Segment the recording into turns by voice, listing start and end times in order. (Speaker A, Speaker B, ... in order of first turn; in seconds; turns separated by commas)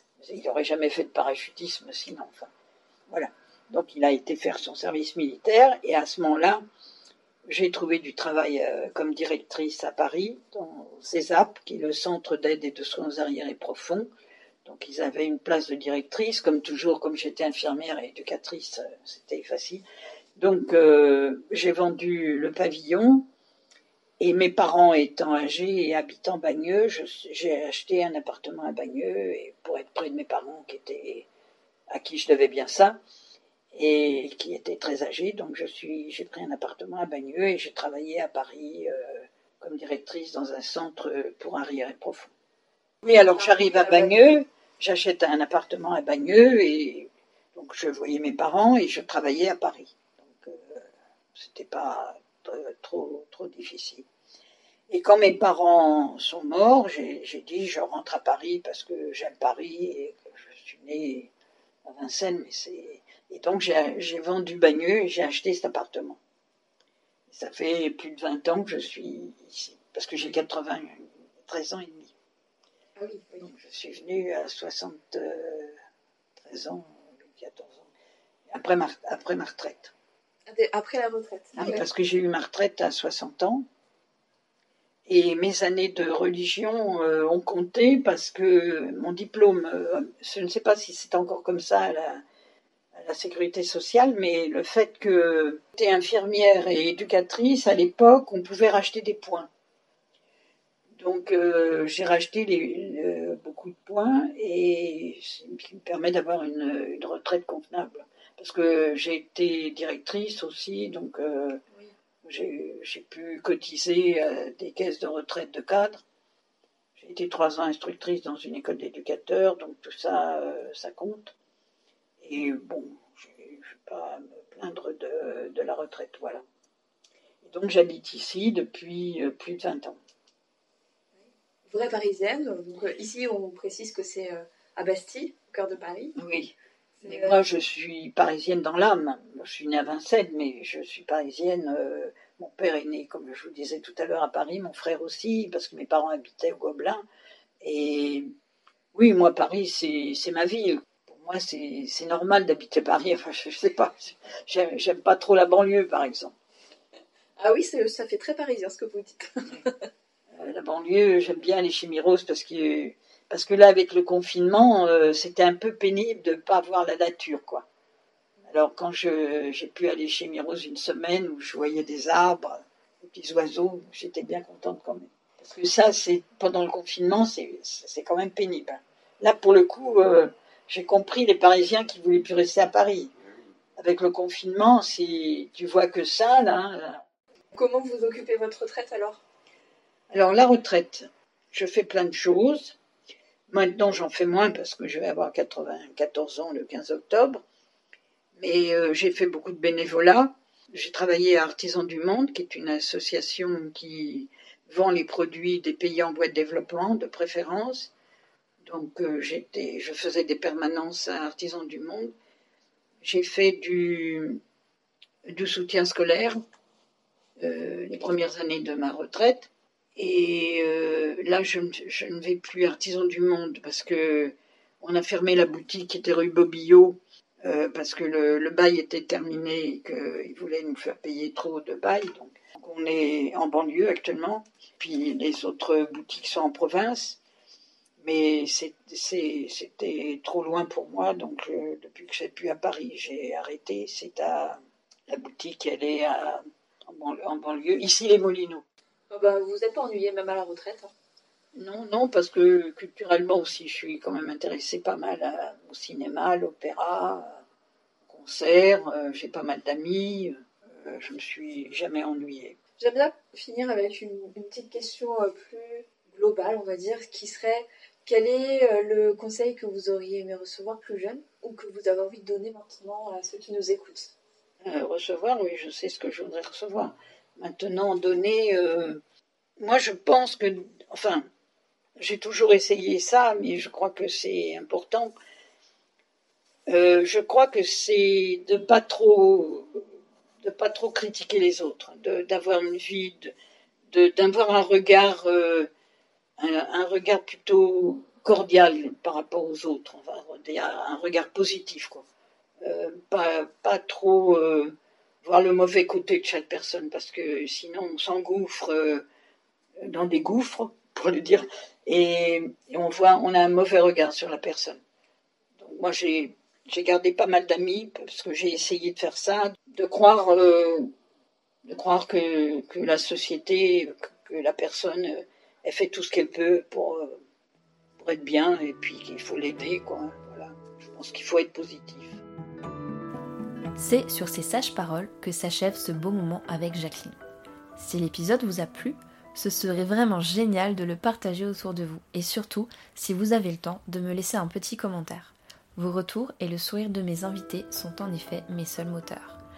Speaker A: 0.2-2.5, Speaker A: 3.1-6.6, Speaker A: 7.5-14.1, Speaker A: 14.7-19.8, Speaker A: 20.4-23.2, Speaker A: 24.2-31.3, Speaker A: 31.9-33.0, Speaker A: 33.7-42.3, Speaker A: 43.0-54.1, Speaker B: 43.3-44.2, Speaker A: 54.9-61.3, Speaker A: 61.9-66.2, Speaker A: 67.3-72.1, Speaker B: 73.0-73.3, Speaker A: 73.3-75.8, Speaker A: 76.4-77.9, Speaker A: 78.5-79.9, Speaker B: 80.5-81.8, Speaker A: 81.6-83.7, Speaker A: 85.1-92.2, Speaker A: 92.9-99.5, Speaker A: 101.0-111.6, Speaker A: 112.2-116.0, Speaker A: 117.0-121.3, Speaker A: 122.2-126.4, Speaker A: 127.4-130.0, Speaker B: 131.7-136.2, Speaker A: 136.2-136.5, Speaker B: 137.0-137.4, Speaker A: 137.0-147.0, Speaker A: 147.6-148.3, Speaker A: 148.9-156.3, Speaker B: 157.4-159.8, Speaker A: 160.3-167.7, Speaker A: 168.5-183.1, Speaker A: 183.8-187.0, Speaker B: 187.5-189.2, Speaker A: 190.1-192.8, Speaker A: 193.5-197.4, Speaker A: 198.4-207.9, Speaker A: 208.6-212.1, Speaker A: 213.0-214.4, Speaker A: 215.2-216.4, Speaker A: 217.4-237.2, Speaker A: 238.0-248.6, Speaker B: 249.1-250.9, Speaker A: 251.6-257.4, Speaker A: 258.1-262.6, Speaker B: 262.8-274.1, Speaker A: 274.6-279.0, Speaker A: 279.6-281.3, Speaker A: 282.0-285.1, Speaker A: 286.7-289.8, Speaker A: 290.4-293.3, Speaker A: 293.9-295.7, Speaker A: 296.4-302.1, Speaker A: 302.6-309.1, Speaker A: 309.8-314.8, Speaker A: 315.6-320.9, Speaker A: 321.7-327.2, Speaker A: 328.0-332.2, Speaker C: 333.8-337.2, Speaker C: 337.8-349.4